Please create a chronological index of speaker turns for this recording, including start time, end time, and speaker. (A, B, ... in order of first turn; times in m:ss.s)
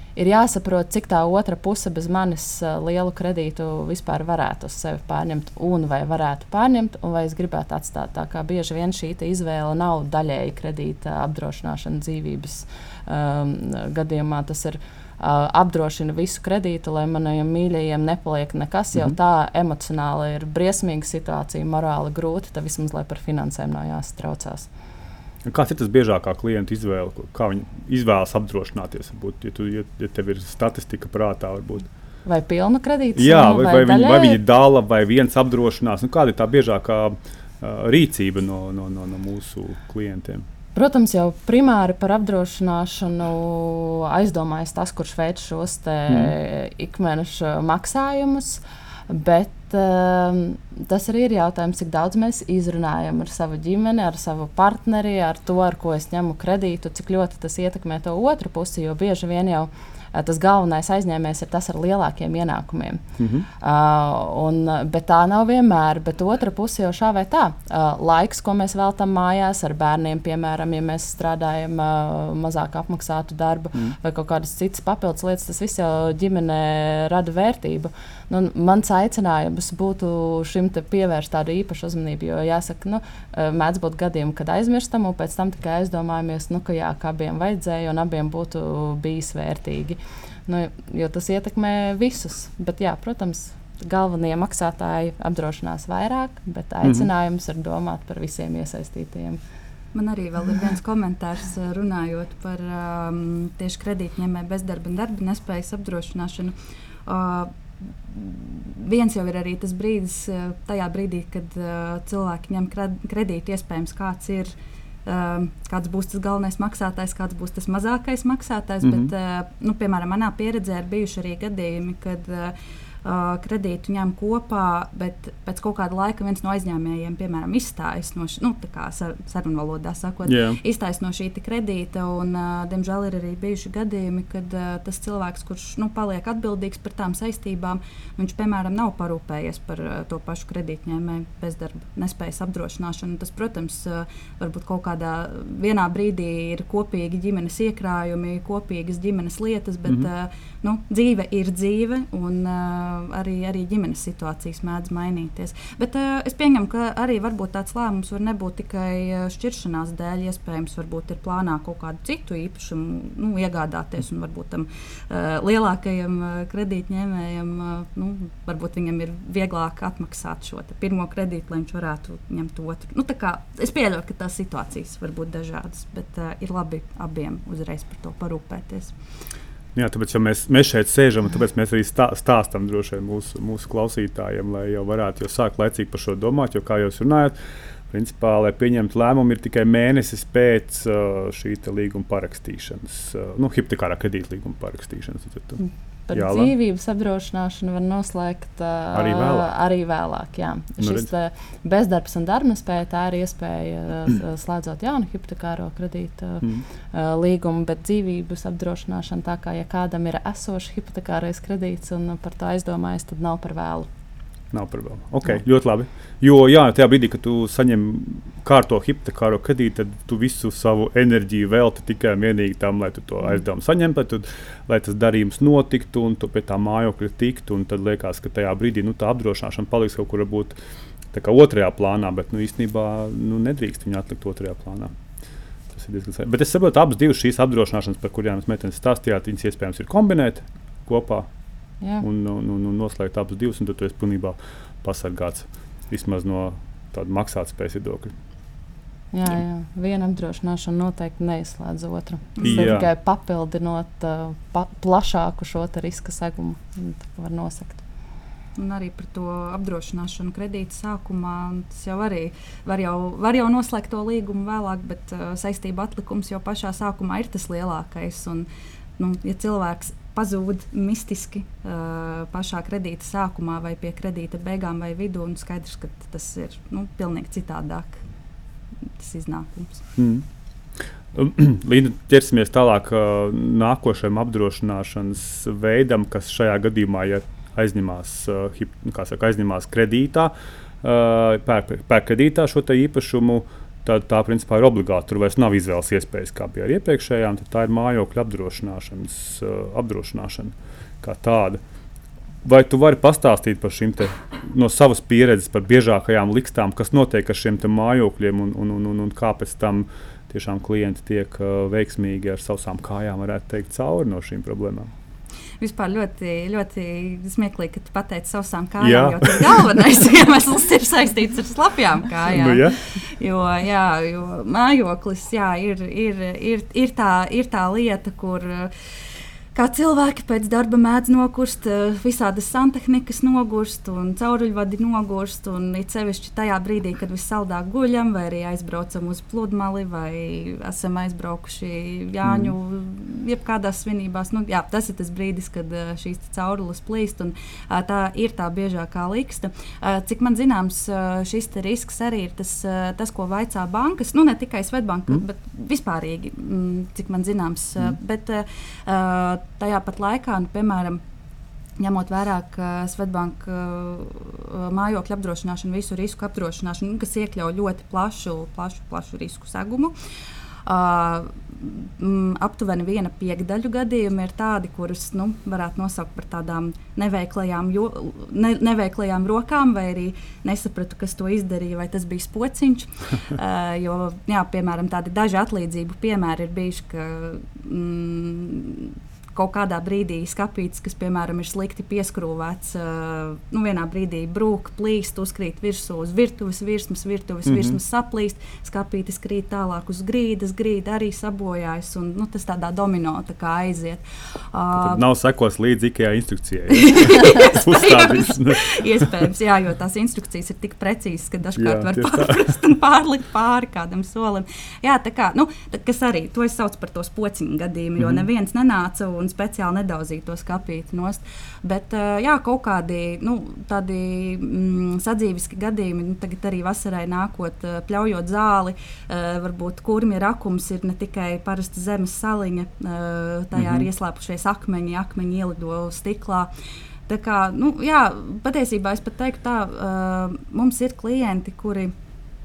0:00.2-0:24.7 A
0:25.4-0:31.9 B
0:32.2-0:34.4 A
0:33.2-0:40.4 B
0:40.7-1:39.4 A
0:46.1-0:46.3 B
1:03.2-1:03.5 B
1:36.8-1:37.1 B
1:39.9-1:46.5 C
1:47.0-2:58.9 C
1:58.8-1:59.1 B
2:10.2-2:10.6 B
2:59.7-3:07.4 B
3:07.9-3:15.6 B
3:15.6-3:33.9 A
3:16.1-3:16.5 B
3:18.9-3:19.5 B
3:20.8-3:21.1 B
3:34.5-3:50.5 B
3:51.1-3:54.9 B
3:55.7-4:01.3 B
4:02.0-4:08.1 B
4:09.1-4:17.8 A
4:12.4-4:12.7 C
4:12.4-4:12.9 B
4:18.6-4:38.0 C
4:38.9-4:39.8 C
4:40.0-4:40.2 B
4:41.1-4:50.3 B
4:50.8-5:01.6 B
5:02.4-5:14.9 B
5:15.6-5:28.7 C
5:18.8-5:19.6 B
5:22.3-5:22.8 B
5:29.5-6:01.0 C
5:42.2-5:42.6 B
6:01.8-6:09.9 C
6:10.6-6:45.0 C
6:37.4-6:37.8 B
6:44.7-6:49.1 B
6:46.7-7:16.5 C
6:51.6-6:52.5 B
6:58.0-6:58.2 B
7:13.5-7:13.9 B
7:17.1-7:21.9 C